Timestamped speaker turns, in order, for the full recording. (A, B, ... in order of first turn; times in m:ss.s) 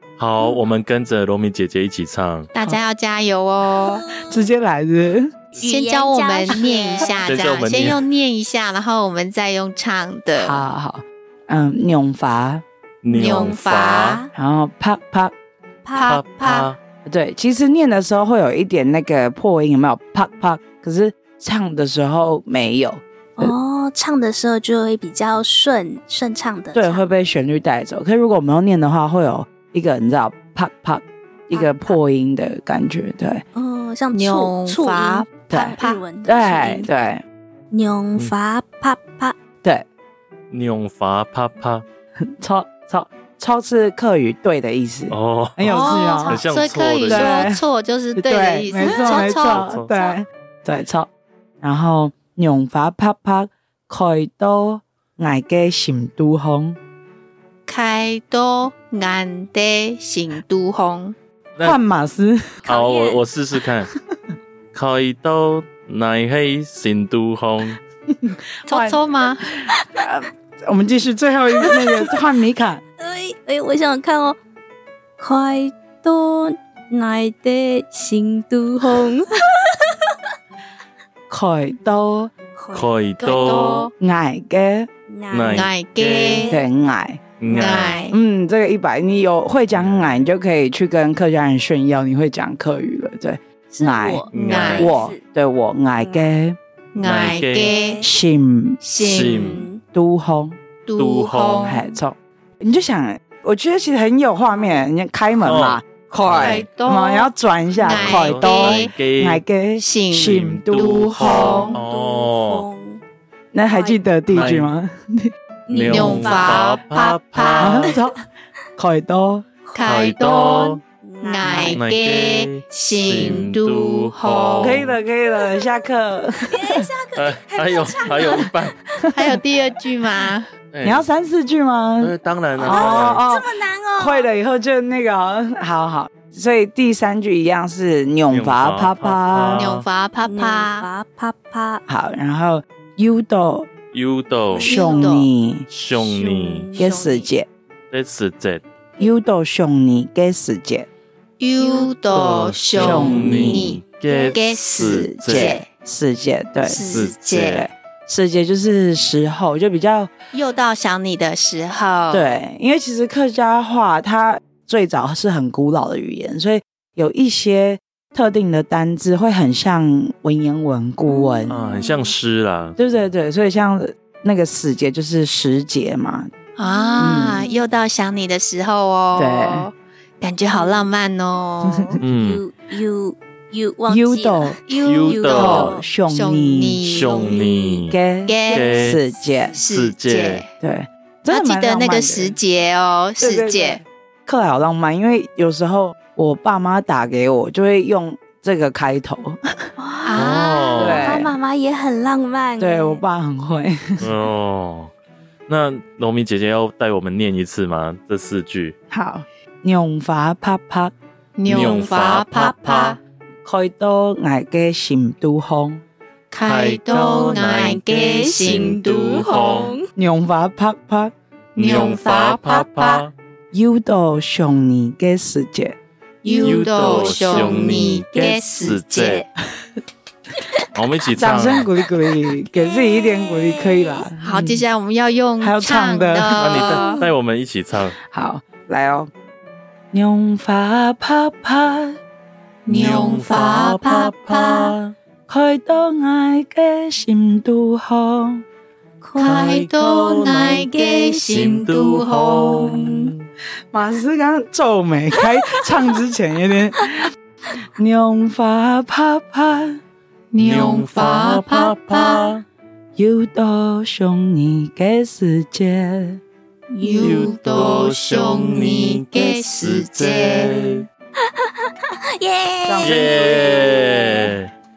0:00.2-0:02.5 A
0:02.5-0:04.1 B
0:04.1-0:05.3 C
0:05.6-0:07.2 D
0:05.6-0:10.6 B
0:07.2-0:08.0 A
0:10.3-0:12.6 C
0:13.0-0:14.2 A
0:13.1-0:14.2 B
0:13.2-0:13.5 D
0:14.3-0:15.3 C
0:15.8-0:16.1 D
0:15.9-0:16.7 B
0:16.0-0:16.8 A
0:17.0-0:23.5 C
0:23.4-0:27.1 D
0:26.7-0:33.4 C
0:31.5-0:32.0 D
0:33.5-0:36.9 D
0:34.1-0:36.0 B
0:35.5-0:37.2 C
0:37.7-0:39.4 D
0:40.5-0:41.8 A
0:42.2-0:46.4 C
0:45.1-0:47.5 A
0:45.7-0:50.1 B
0:45.9-0:46.2 D
0:47.1-0:47.6 C
0:48.2-0:51.1 C
0:49.1-0:49.9 A
0:51.6-0:56.8 C
0:57.7-1:01.2 B
1:01.6-1:02.7 C
1:02.6-1:03.2 D
1:02.7-1:03.9 A
1:04.7-1:07.8 A
1:08.1-1:12.8 C
1:08.7-1:09.4 B
1:11.6-1:12.0 D
1:13.0-1:14.4 D
1:15.2-1:19.5 D
1:21.3-1:22.3 C
1:22.6-1:23.7 D
1:22.7-1:23.9 A
1:23.2-1:23.9 B
1:24.0-1:24.9 C
1:25.1-1:26.7 D
1:25.3-1:26.5 A
1:25.5-1:26.5 B
1:26.5-1:27.3 C
1:27.4-1:28.0 A
1:27.4-1:28.1 D
1:27.5-1:28.2 B
1:28.1-1:36.6 C
1:29.7-1:30.2 A
1:33.7-1:35.2 D
1:34.3-1:34.9 A
1:34.4-1:35.0 B
1:36.0-1:36.3 D
1:36.9-1:38.0 B
1:37.0-1:37.7 A
1:37.5-1:38.1 D
1:38.0-1:38.8 C
1:38.8-1:39.6 B
1:39.0-1:39.6 A
1:39.2-1:39.8 D
1:39.9-1:40.6 C
1:40.8-1:41.8 B
1:41.0-1:41.8 A
1:41.6-1:51.7 C
1:45.4-1:46.7 A
1:46.4-1:47.3 B
1:47.8-1:48.9 B
1:47.8-1:49.4 A
1:49.8-1:51.8 B
1:50.2-1:52.6 A
1:51.7-1:53.0 D
1:53.5-1:55.3 C
1:53.7-1:54.0 D
1:54.3-1:54.7 A
1:55.7-1:56.7 D
1:55.7-1:57.9 A
1:55.9-1:57.8 B
1:57.6-1:58.2 C
1:58.8-1:59.5 C
1:59.6-2:00.1 D
1:59.7-2:04.8 B
1:59.8-2:00.8 A
2:01.0-2:01.8 D
2:01.4-2:04.9 A
2:03.1-2:03.5 D
2:04.6-2:06.8 C
2:06.4-2:08.5 D
2:07.1-2:08.8 A
2:09.0-2:09.4 C
2:09.1-2:10.5 B
2:10.7-2:11.0 A
2:10.8-2:19.7 C
2:12.0-2:13.2 A
2:12.6-2:14.3 D
2:18.3-2:19.8 A
2:19.5-2:20.8 B
2:20.2-2:21.8 D
2:21.9-2:23.7 C
2:23.9-2:24.7 A
2:24.5-2:25.1 D
2:24.6-2:25.7 C
2:24.6-2:25.3 B
2:25.7-2:26.7 A
2:25.9-2:27.3 D
2:26.7-2:27.5 C
2:27.9-2:28.6 A
2:29.0-2:30.9 C
2:31.4-2:35.6 B
2:31.6-2:31.9 D
2:32.1-2:35.6 A
2:32.7-2:33.7 C
2:34.0-2:34.4 D
2:34.8-2:40.1 C
2:36.6-2:37.6 B
2:36.8-2:37.6 A
2:40.3-2:42.4 B
2:42.1-2:51.6 C
2:51.1-2:52.1 D
2:51.5-2:52.8 A
2:52.8-2:56.3 C
2:56.6-3:02.0 B
2:56.6-2:57.7 D
2:57.0-2:57.4 C
2:59.1-2:59.7 C
3:00.5-3:00.9 D
3:01.7-3:02.0 C
3:02.0-3:02.4 A
3:02.1-3:05.8 D
3:03.9-3:04.6 C
3:04.7-3:10.5 B
3:04.8-3:05.7 A
3:05.3-3:09.6 C
3:06.8-3:08.0 A
3:08.5-3:09.0 A
3:09.6-3:10.4 A
3:10.6-3:12.4 C
3:11.3-3:13.8 B
3:13.2-3:19.4 C
3:19.8-3:23.0 D
3:20.0-3:20.9 B
3:20.1-3:21.1 A
3:20.8-3:21.3 C
3:22.6-3:24.1 C
3:24.0-3:24.9 A
3:25.5-3:28.7 A
3:28.9-3:30.9 C
3:31.4-3:33.0 B
3:31.4-3:33.0 A
3:33.4-3:35.8 C
3:36.3-3:39.6 B
3:36.4-3:39.7 A
3:37.3-3:39.9 D
3:39.9-3:41.1 C
3:41.6-3:43.0 B
3:41.6-3:43.1 A
3:43.5-3:45.8 C
3:46.2-3:47.9 D
3:46.2-3:49.2 B
3:46.4-3:49.2 A
3:50.7-3:51.7 A
3:51.2-3:54.6 C
3:52.5-3:54.0 D
3:54.2-3:56.9 B
3:55.4-3:56.5 C
3:56.4-3:58.0 A
3:56.6-3:57.0 D
3:58.0-3:59.1 C
3:59.9-4:02.0 C
4:02.6-4:04.7 B
4:02.7-4:04.9 A
4:05.3-4:08.4 C
4:09.0-4:09.6 D
4:09.2-4:12.8 B
4:09.2-4:13.3 A
4:10.3-4:11.4 D
4:12.5-4:13.1 D
4:13.7-4:17.1 C
4:17.8-4:19.8 C
4:20.3-4:22.3 B
4:20.4-4:22.4 A
4:23.0-4:26.2 C
4:26.7-4:27.3 D
4:26.8-4:30.8 B
4:27.0-4:30.8 A
4:32.1-4:33.3 D
4:32.6-4:34.3 C
4:32.8-4:34.5 A